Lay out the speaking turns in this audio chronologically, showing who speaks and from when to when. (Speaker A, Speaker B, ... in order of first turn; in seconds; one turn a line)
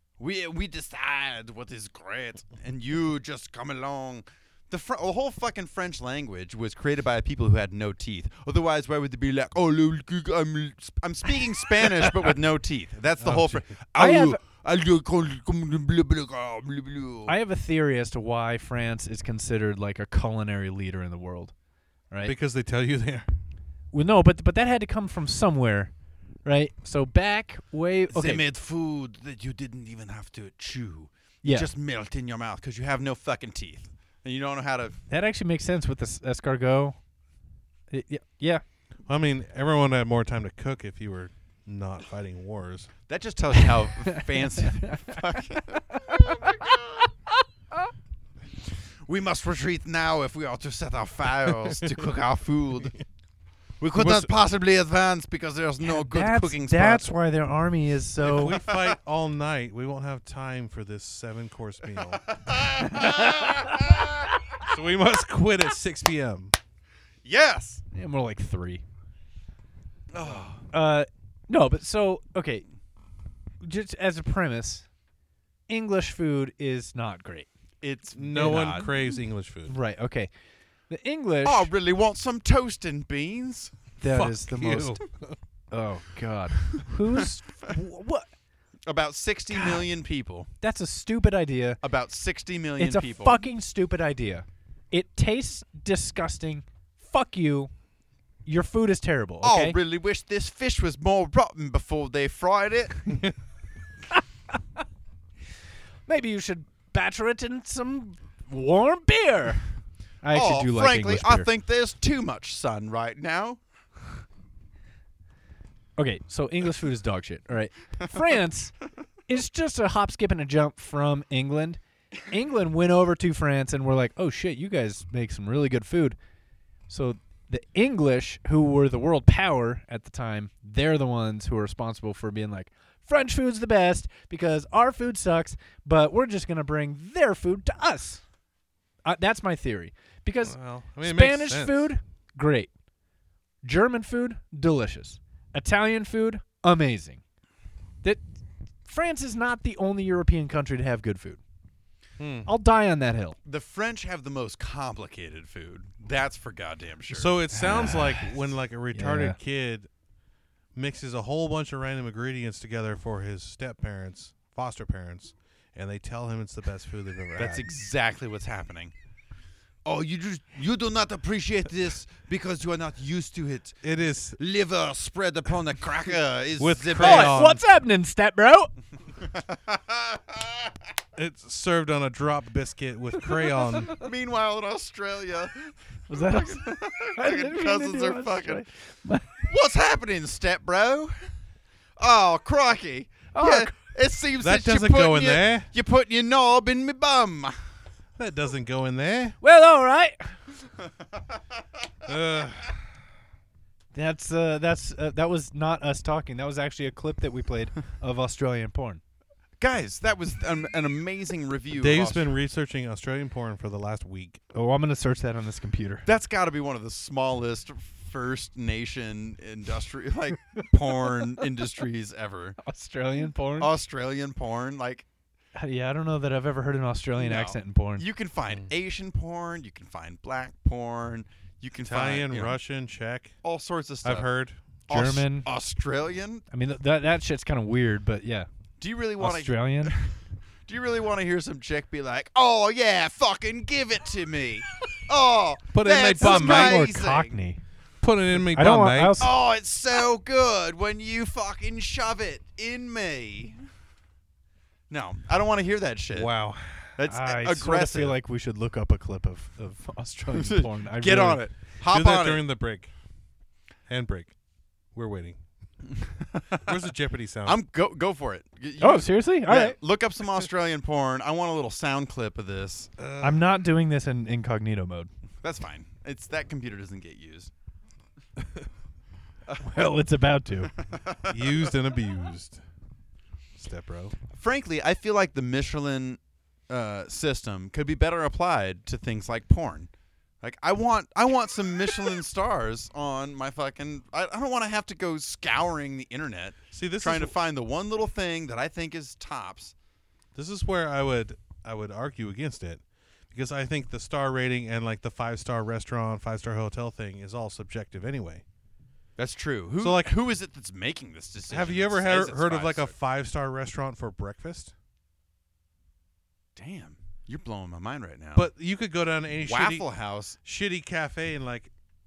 Speaker A: 0.2-17.3
Speaker B: 13.2-13.7
Speaker C: 13.9-14.4
Speaker C: 17.3-21.5
Speaker C: 22.1-22.3
Speaker B: 22.2-23.3
Speaker C: 23.9-25.9
Speaker C: 26.4-28.4
Speaker A: 28.1-35.0
Speaker C: 31.4-31.7
Speaker C: 35.1-37.0
Speaker C: 37.9-38.6
Speaker B: 39.0-42.9
Speaker A: 43.1-47.1
Speaker C: 44.1-45.2
Speaker A: 49.0-53.0
Speaker A: 53.8-57.1
Speaker B: 53.9-54.3
Speaker C: 55.8-58.6
Speaker B: 58.2-62.3
Speaker A: 62.3-64.4
Speaker C: 62.9-63.7
Speaker B: 64.6-66.5
Speaker A: 67.2-67.8
Speaker C: 67.9-68.8
Speaker A: 70.1-70.7
Speaker C: 70.7-72.7
Speaker C: 73.6-74.8
Speaker C: 75.7-77.5
Speaker A: 77.8-78.9
Speaker B: 78.2-79.7
Speaker C: 78.4-78.9
Speaker C: 79.7-80.3
Speaker C: 80.9-81.7
Speaker A: 81.4-83.7
Speaker C: 84.0-85.0
Speaker B: 84.0-85.4
Speaker C: 85.7-88.3
Speaker A: 88.9-90.5
Speaker C: 89.5-89.8
Speaker C: 90.6-91.8
Speaker A: 91.8-93.4
Speaker C: 92.8-97.7
Speaker C: 98.5-99.8
Speaker A: 99.4-103.0
Speaker C: 106.1-109.7
Speaker C: 110.2-111.5
Speaker A: 110.3-113.6
Speaker C: 116.0-126.2
Speaker C: 126.9-138.2
Speaker C: 139.0-142.7
Speaker B: 140.4-141.9
Speaker C: 143.6-147.2
Speaker C: 148.8-151.4
Speaker B: 152.2-152.5
Speaker C: 152.4-153.3
Speaker A: 153.4-157.3
Speaker B: 157.1-159.9
Speaker C: 157.5-158.3
Speaker C: 158.9-159.4
Speaker B: 160.7-167.7
Speaker A: 167.3-168.9
Speaker A: 169.8-177.4
Speaker B: 173.8-174.4
Speaker B: 176.6-177.6
Speaker C: 177.0-178.7
Speaker A: 179.2-180.6
Speaker B: 181.2-183.9
Speaker A: 183.9-188.6
Speaker C: 186.1-189.4
Speaker A: 189.5-191.2
Speaker A: 192.0-197.6
Speaker C: 193.3-193.8
Speaker B: 194.4-195.7
Speaker B: 198.2-199.4
Speaker C: 199.4-200.4
Speaker B: 202.1-202.8
Speaker C: 203.9-209.0
Speaker A: 209.6-212.3
Speaker B: 211.8-214.4
Speaker C: 214.5-216.1
Speaker A: 216.1-222.6
Speaker C: 222.6-223.7
Speaker A: 223.6-225.1
Speaker C: 225.5-228.0
Speaker A: 227.2-232.6
Speaker B: 231.8-233.3
Speaker A: 233.4-234.3
Speaker B: 234.0-234.6
Speaker A: 234.9-236.4
Speaker C: 234.9-235.5
Speaker C: 236.5-238.5
Speaker A: 238.8-247.4
Speaker C: 239.2-239.9
Speaker B: 245.7-246.9
Speaker C: 246.2-247.6
Speaker B: 248.0-249.3
Speaker C: 248.5-249.3
Speaker A: 249.2-253.6
Speaker A: 254.9-256.3
Speaker B: 256.1-256.9
Speaker A: 256.9-258.2
Speaker C: 257.1-261.4
Speaker A: 260.3-262.4
Speaker B: 261.9-262.9
Speaker B: 263.9-264.3
Speaker B: 264.9-265.4
Speaker A: 265.9-266.7
Speaker B: 266.6-267.6
Speaker A: 267.4-272.9
Speaker C: 268.8-269.8
Speaker B: 273.0-273.6
Speaker C: 273.2-275.1
Speaker A: 275.4-277.5
Speaker C: 279.6-280.7
Speaker A: 280.8-281.7
Speaker B: 281.3-282.6
Speaker B: 283.6-284.1
Speaker A: 284.3-289.9
Speaker A: 290.4-299.7
Speaker B: 296.7-297.4
Speaker B: 300.3-308.4
Speaker A: 309.2-312.9
Speaker B: 309.8-310.1
Speaker B: 311.5-314.7
Speaker A: 316.6-318.5
Speaker B: 318.3-321.7
Speaker A: 319.4-320.4